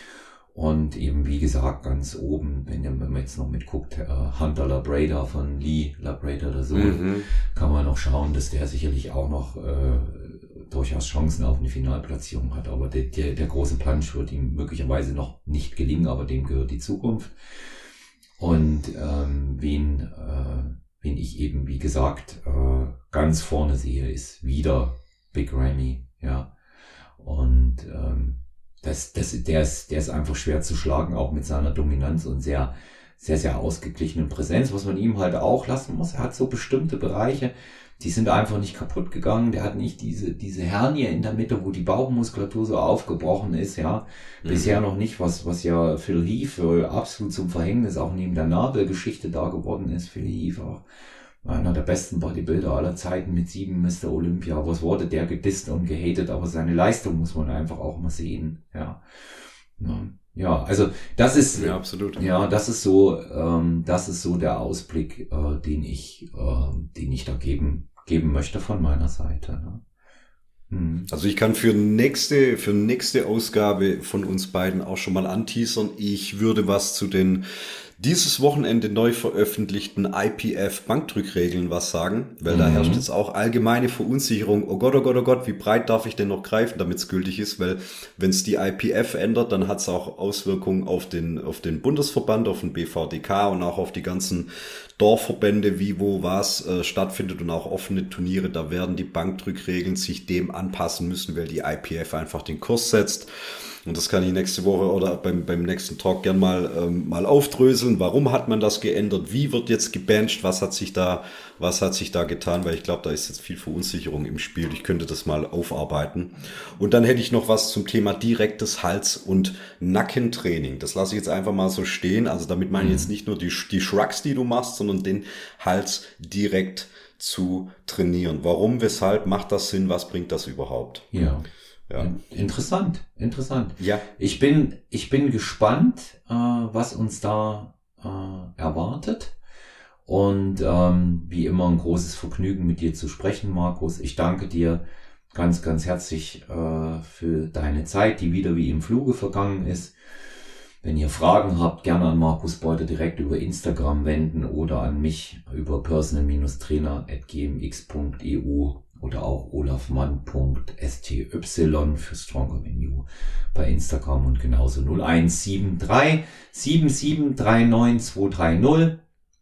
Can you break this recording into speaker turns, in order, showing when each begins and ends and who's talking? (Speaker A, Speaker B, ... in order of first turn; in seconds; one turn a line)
Speaker A: 0.5-17.4
Speaker B: 6.7-7.3
Speaker A: 18.4-26.5
Speaker A: 27.2-50.8
Speaker B: 44.5-44.8
Speaker A: 51.4-59.0
Speaker A: 59.8-69.8
Speaker B: 61.5-62.2
Speaker A: 70.7-71.1
Speaker B: 71.1-77.4
Speaker B: 78.0-103.3
Speaker A: 82.5-83.0
Speaker B: 103.9-131.1
Speaker A: 122.8-123.1
Speaker A: 131.1-131.4
Speaker A: 132.0-139.3
Speaker B: 133.8-134.1
Speaker A: 140.1-149.9
Speaker A: 150.8-169.0